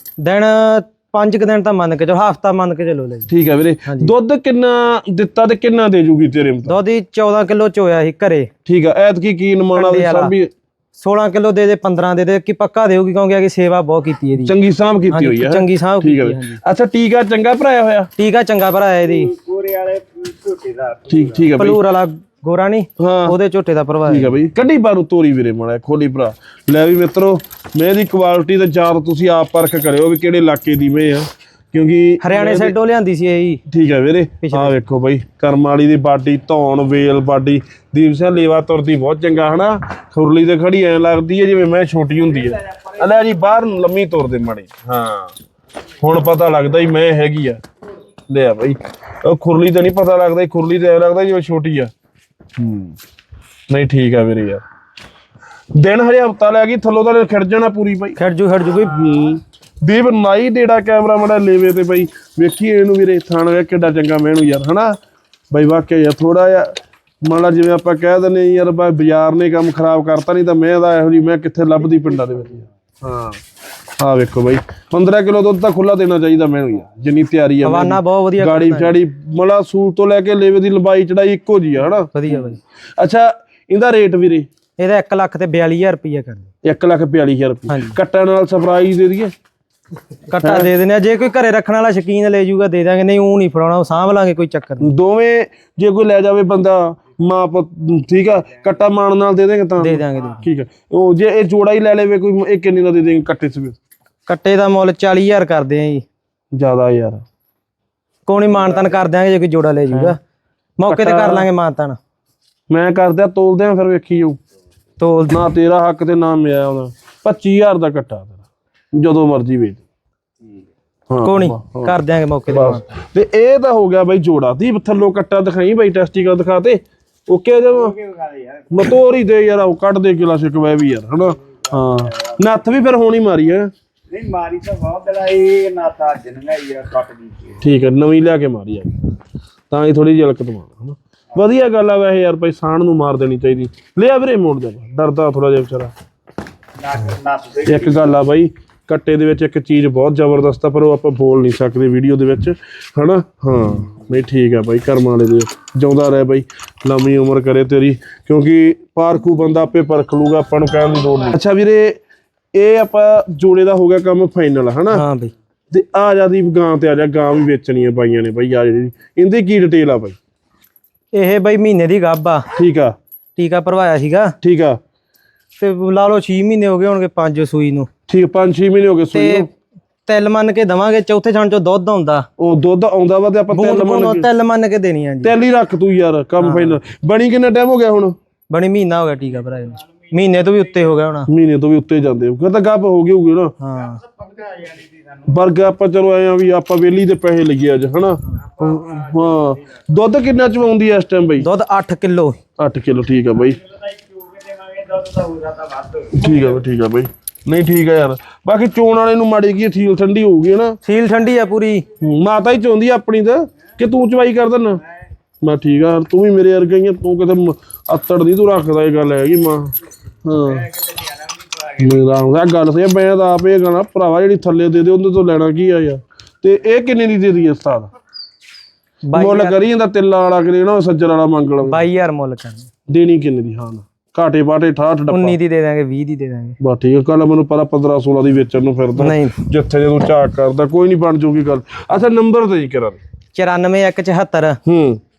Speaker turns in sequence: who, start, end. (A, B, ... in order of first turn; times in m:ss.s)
0:00.2-0:03.3 A
0:03.3-0:06.8 B
0:03.8-0:04.1 A
0:06.6-0:08.5 A
0:08.7-0:10.5 B
0:09.8-0:10.3 A
0:11.0-0:14.5 A
0:14.4-0:18.1 B
0:15.1-0:16.6 A
0:18.2-0:19.4 A
0:19.4-0:21.1 C
0:21.1-0:21.8 B
0:21.6-0:24.3 A
0:23.0-0:23.4 B
0:24.1-0:32.8 B
0:32.2-0:33.6 A
0:33.7-0:45.4 B
0:34.4-0:34.8 A
0:46.0-0:47.6 B
0:48.3-0:51.9 B
0:52.6-0:53.0 B
0:53.7-0:54.6 B
0:55.8-0:58.2 B
0:58.2-0:59.0 A
0:58.7-1:05.0 B
1:05.5-1:13.4 B
1:14.0-1:24.5 B
1:17.6-1:19.0 A
1:22.1-1:22.6 A
1:24.8-1:26.5 A
1:26.6-1:29.3 B
1:27.7-1:28.0 A
1:30.3-1:34.9 A
1:30.4-1:30.7 B
1:34.8-1:43.8 B
1:39.8-1:40.4 A
1:44.3-1:46.0 A
1:46.5-1:47.2 B
1:48.3-1:50.2 A
1:49.9-1:50.2 B
1:50.8-1:52.0 A
1:50.9-1:51.5 B
1:52.7-1:54.4 B
1:55.0-1:55.4 A
1:55.3-1:59.8 B
2:01.1-2:02.0 B
2:01.2-2:02.8 A
2:02.5-2:08.0 B
2:08.2-2:08.6 C
2:08.7-2:13.7 B
2:14.1-2:17.4 C
2:17.6-2:19.1 B
2:19.7-2:25.9 B
2:27.1-2:27.5 C
2:27.5-2:42.0 B
2:42.5-2:45.0 B
2:44.9-2:45.3 A
2:45.7-2:50.2 B
2:51.1-2:52.5 A
2:52.6-2:53.0 B
2:53.4-2:54.4 A
2:54.4-2:54.8 B
2:55.6-2:57.9 A
2:58.1-2:59.5 B
2:59.1-2:59.5 A
3:00.1-3:02.3 A
3:02.4-3:04.3 B
3:03.5-3:05.3 A
3:05.2-3:08.2 B
3:06.4-3:06.8 A
3:08.5-3:11.3 A
3:11.3-3:13.6 B
3:13.6-3:14.1 A
3:15.2-3:21.5 B
3:21.4-3:22.4 A
3:22.6-3:23.6 B
3:24.6-3:26.0 C
3:26.1-3:30.8 B
3:30.8-3:31.9 A
3:32.0-3:34.8 B
3:35.4-3:40.8 B
3:41.7-3:47.9 B
3:49.1-3:49.6 A
3:49.1-3:51.8 B
3:51.6-3:52.7 A
3:52.9-3:55.4 B
3:55.1-3:56.6 A
3:56.6-4:03.0 B
3:59.0-3:59.4 A
4:03.4-4:04.6 A
4:04.7-4:05.0 B